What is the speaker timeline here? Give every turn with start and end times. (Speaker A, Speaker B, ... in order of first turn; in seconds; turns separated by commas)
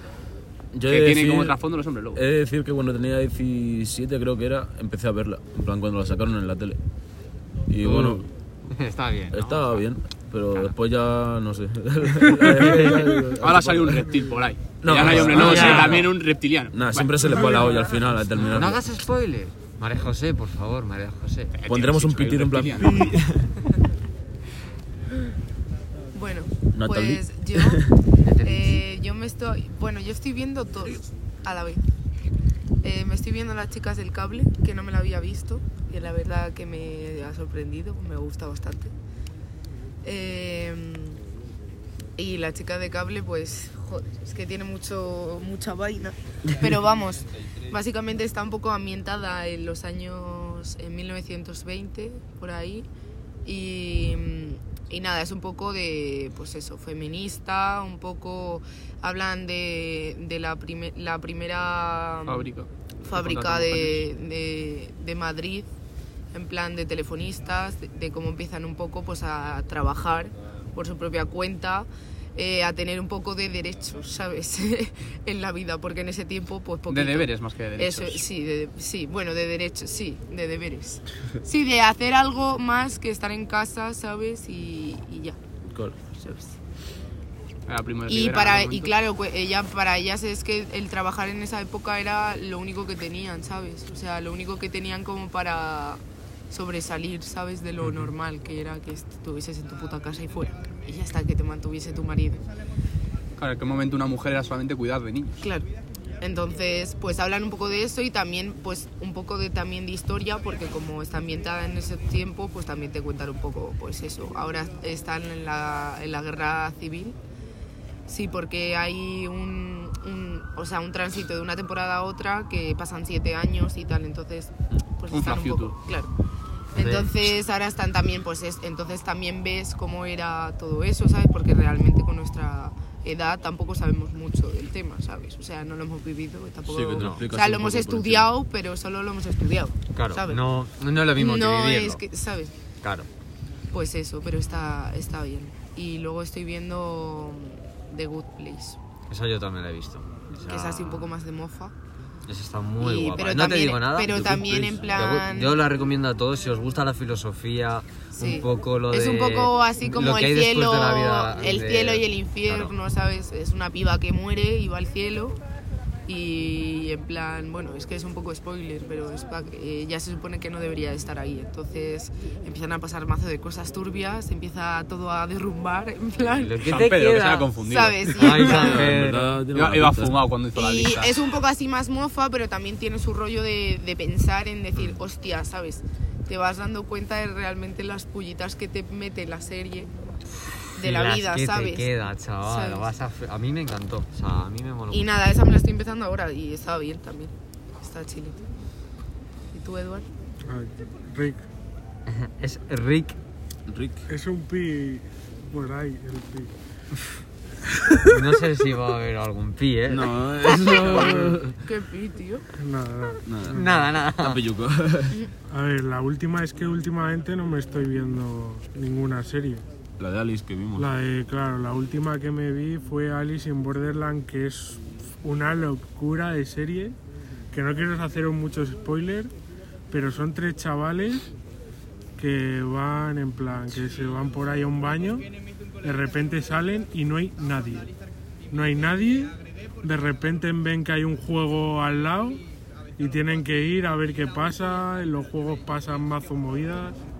Speaker A: 0.7-1.6, Speaker B: 0.9-2.2, Speaker A: 2.1-6.8, Speaker A: 7.7-8.3, Speaker C: 7.8-9.8, Speaker A: 9.3-14.1, Speaker C: 12.4-12.7, Speaker B: 13.4-17.4, Speaker A: 14.8-16.2, Speaker C: 14.9-16.1, Speaker A: 16.7-18.8, Speaker D: 17.3-18.1, Speaker C: 18.4-21.6, Speaker B: 21.5-23.0, Speaker A: 21.7-23.2, Speaker C: 22.9-23.2, Speaker E: 26.1-27.9, Speaker A: 26.7-27.9, Speaker C: 28.2-28.8, Speaker E: 28.4-31.8, Speaker E: 32.8-38.9, Speaker E: 40.0-41.2, Speaker E: 42.2-52.9, Speaker E: 53.4-62.5, Speaker B: 62.2-64.0, Speaker E: 63.0-65.7, Speaker E: 66.3-85.4, Speaker B: 76.9-78.2, Speaker A: 85.7-86.0, Speaker E: 86.1-86.5, Speaker B: 87.7-88.9, Speaker E: 88.1-96.0, Speaker E: 96.5-102.4, Speaker B: 103.4-105.4, Speaker E: 105.4-105.7, Speaker E: 106.2-117.2, Speaker E: 118.1-126.1, Speaker B: 125.1-125.8, Speaker C: 126.7-127.3, Speaker E: 126.7-140.4, Speaker A: 136.6-138.3, Speaker C: 136.9-137.2, Speaker C: 139.9-142.0, Speaker E: 141.1-142.5, Speaker C: 142.8-143.1, Speaker E: 143.7-148.8, Speaker C: 149.1-151.1, Speaker E: 150.4-151.7, Speaker C: 152.3-162.8, Speaker E: 152.8-155.6, Speaker A: 154.1-154.9, Speaker E: 158.1-165.4, Speaker E: 166.1-176.9, Speaker C: 176.3-177.5, Speaker B: 176.6-178.6, Speaker E: 177.6-178.9, Speaker C: 178.1-179.4, Speaker A: 178.4-180.2, Speaker B: 179.5-181.3, Speaker E: 180.5-189.9, Speaker C: 190.3-195.1, Speaker E: 190.7-191.9, Speaker E: 192.4-192.9, Speaker E: 194.9-198.4, Speaker E: 199.5-200.1, Speaker D: 200.5-201.4, Speaker C: 202.1-203.2, Speaker A: 203.7-204.0, Speaker D: 204.1-206.5, Speaker A: 207.8-208.2, Speaker C: 208.0-211.2, Speaker A: 209.9-211.5, Speaker E: 210.9-212.4, Speaker D: 212.6-213.2, Speaker A: 213.2-215.2, Speaker C: 213.4-214.4, Speaker D: 215.5-219.6, Speaker A: 220.0-220.9, Speaker D: 220.8-227.0, Speaker D: 227.5-229.3, Speaker D: 229.9-231.3, Speaker D: 232.2-235.3, Speaker D: 235.8-237.9, Speaker D: 238.5-242.4, Speaker D: 243.0-247.0